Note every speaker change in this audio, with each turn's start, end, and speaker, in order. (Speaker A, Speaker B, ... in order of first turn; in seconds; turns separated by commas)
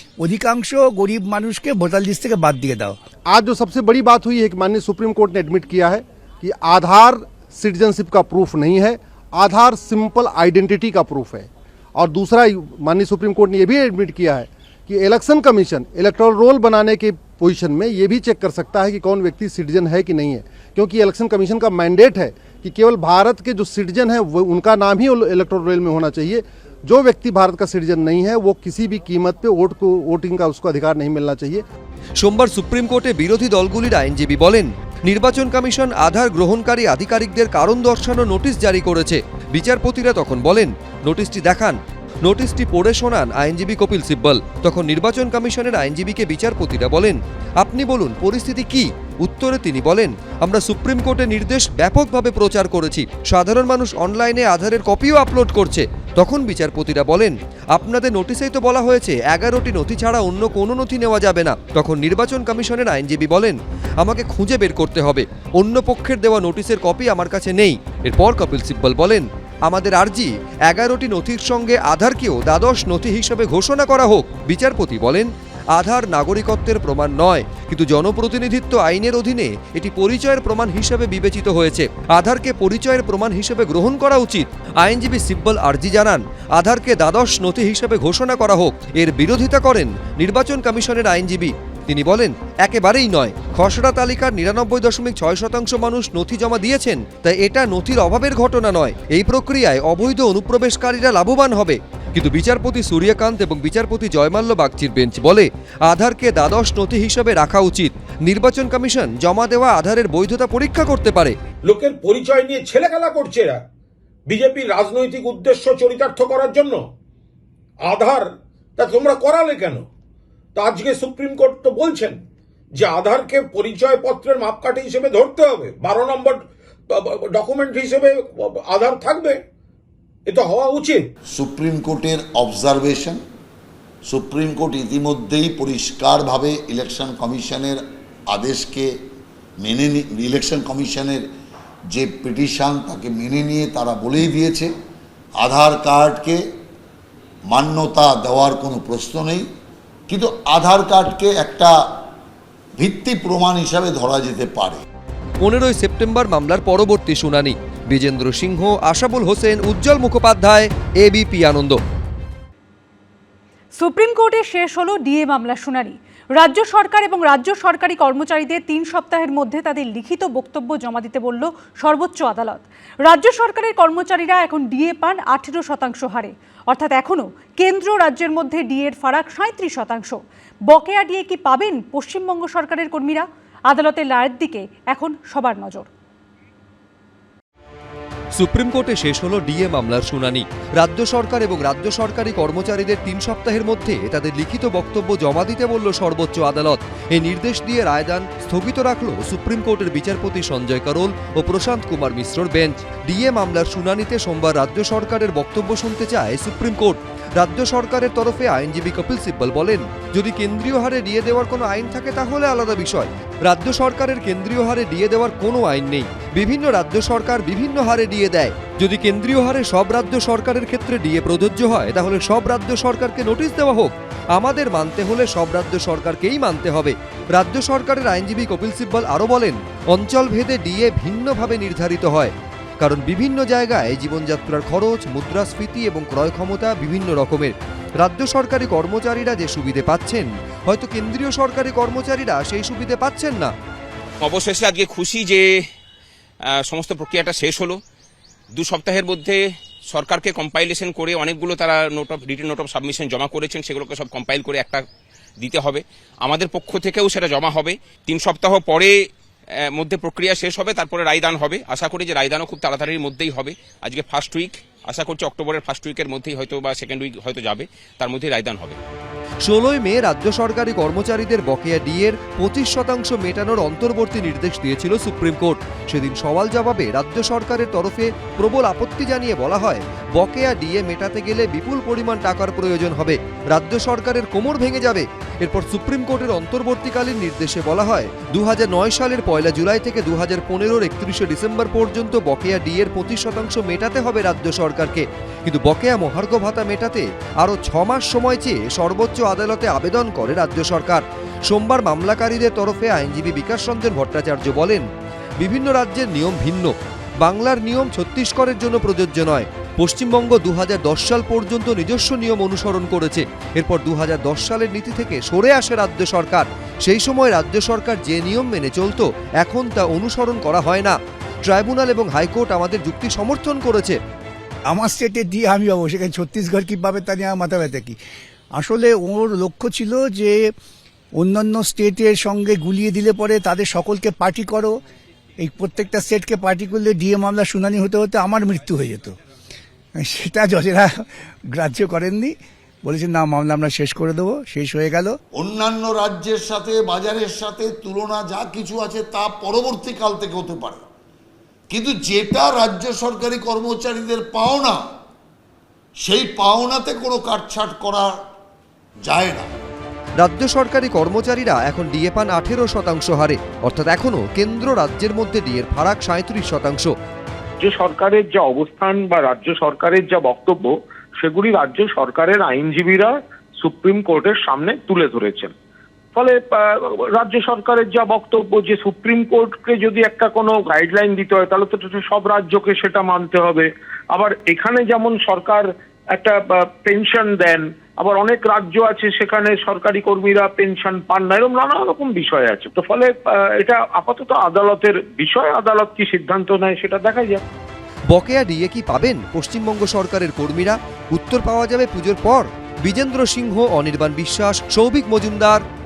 Speaker A: 0.2-3.0, Speaker B: 3.3-31.6, Speaker C: 32.2-111.3, Speaker D: 111.7-113.6, Speaker D: 114.3-116.8, Speaker D: 117.8-119.8, Speaker D: 120.6-122.2, Speaker D: 122.8-126.4, Speaker D: 126.9-129.4, Speaker D: 130.3-131.1, Speaker E: 131.3-133.2, Speaker E: 134.1-137.8, Speaker E: 138.3-138.9, Speaker E: 139.6-141.2, Speaker E: 141.9-144.7, Speaker E: 145.4-146.4, Speaker E: 147.5-149.4, Speaker E: 150.1-151.7, Speaker E: 152.8-154.8, Speaker C: 155.4-161.8, Speaker F: 163.8-185.9, Speaker C: 188.4-243.5, Speaker G: 244.2-245.6, Speaker G: 246.5-247.8, Speaker G: 248.5-254.8, Speaker G: 255.4-259.0, Speaker G: 259.7-268.8, Speaker C: 269.4-304.8, Speaker C: 305.4-324.0, Speaker A: 324.7-328.0, Speaker A: 328.6-330.4, Speaker A: 331.2-334.8, Speaker A: 335.4-339.2, Speaker A: 340.0-345.2, Speaker E: 345.4-350.8, Speaker E: 351.7-354.8, Speaker E: 356.0-358.1, Speaker E: 359.0-359.5, Speaker C: 360.2-366.9, Speaker H: 367.6-375.5, Speaker H: 376.1-397.4, Speaker C: 398.1-405.6